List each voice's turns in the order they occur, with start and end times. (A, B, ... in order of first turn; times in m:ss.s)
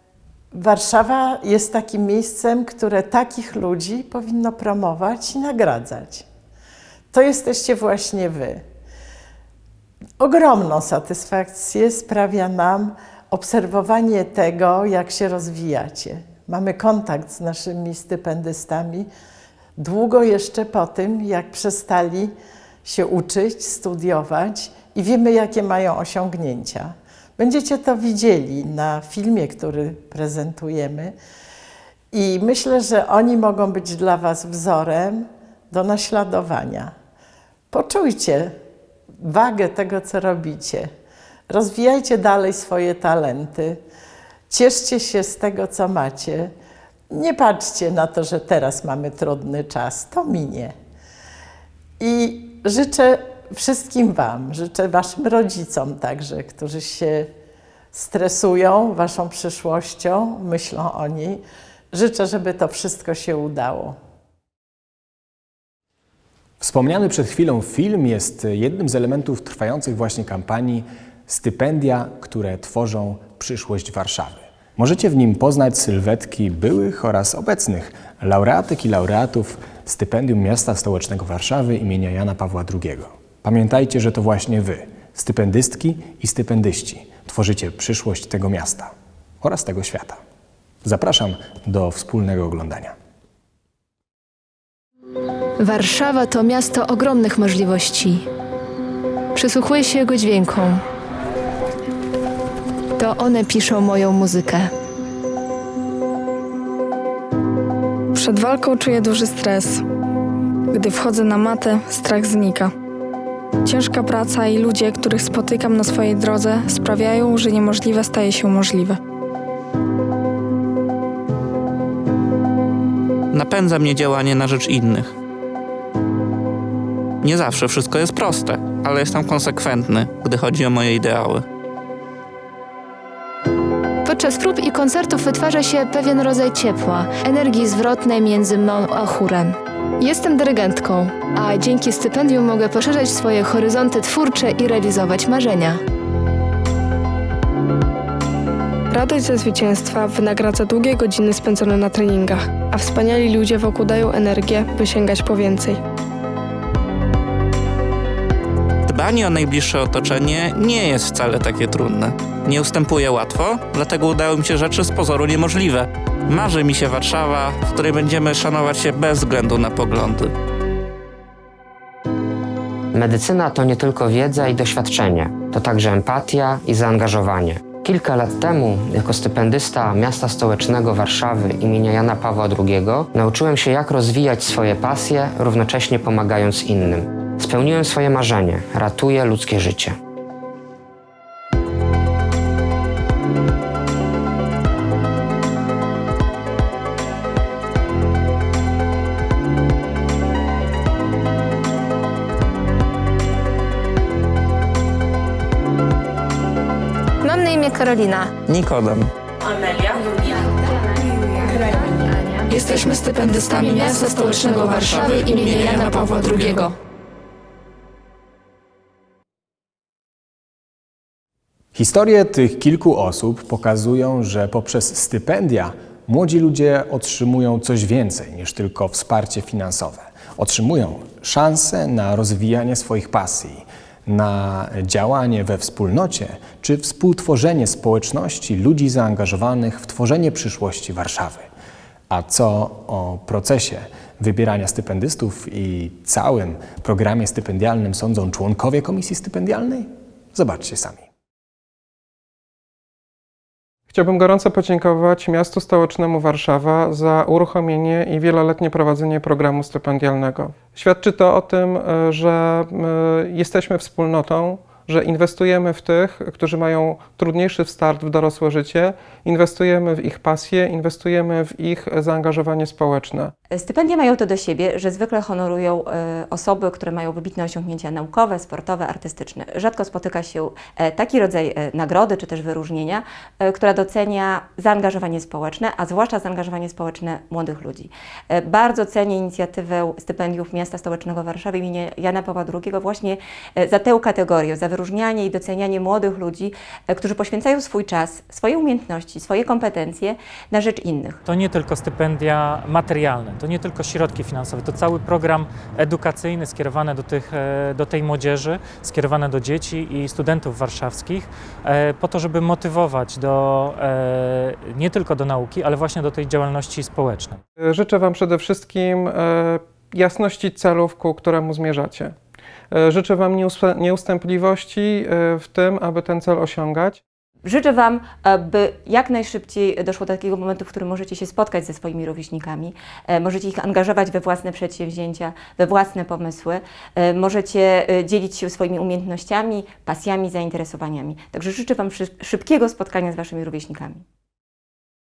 0:00.5-0:06.3 A
0:07.1-0:08.6 A
0:10.2-0:19.1 A
0:19.8-0:31.1 A
0:32.1-0:36.9 A
0:37.7-0:38.6 A
0:39.2-0:40.9 A
0:41.5-0:43.8 A
0:44.5-0:46.5 A
0:47.1-0:50.7 A
0:52.0-0:57.3 A
0:57.9-1:04.0 A
1:06.6-1:30.2 B
1:30.8-1:32.9 B
1:35.6-1:38.3 C
1:39.3-1:40.8 C
1:43.0-1:44.7 C
1:48.2-1:49.8 D
1:50.8-1:52.7 D
1:53.7-1:59.0 D
2:03.3-2:05.1 E
2:07.2-2:11.4 E
2:14.0-2:25.8 C
2:28.9-2:35.8 D
2:38.9-2:50.3 E
2:52.9-3:10.0 F
3:27.2-3:28.3 C
3:28.4-3:29.1 E
3:31.5-3:36.7 C
3:32.6-3:36.7 E
3:41.7-4:01.5 B
4:02.1-4:11.0 B
4:13.9-4:33.3 G
4:33.5-5:01.2 H
5:01.3-5:17.4 I
5:17.6-5:22.2 G
5:22.7-5:27.0 G
5:27.4-5:44.0 H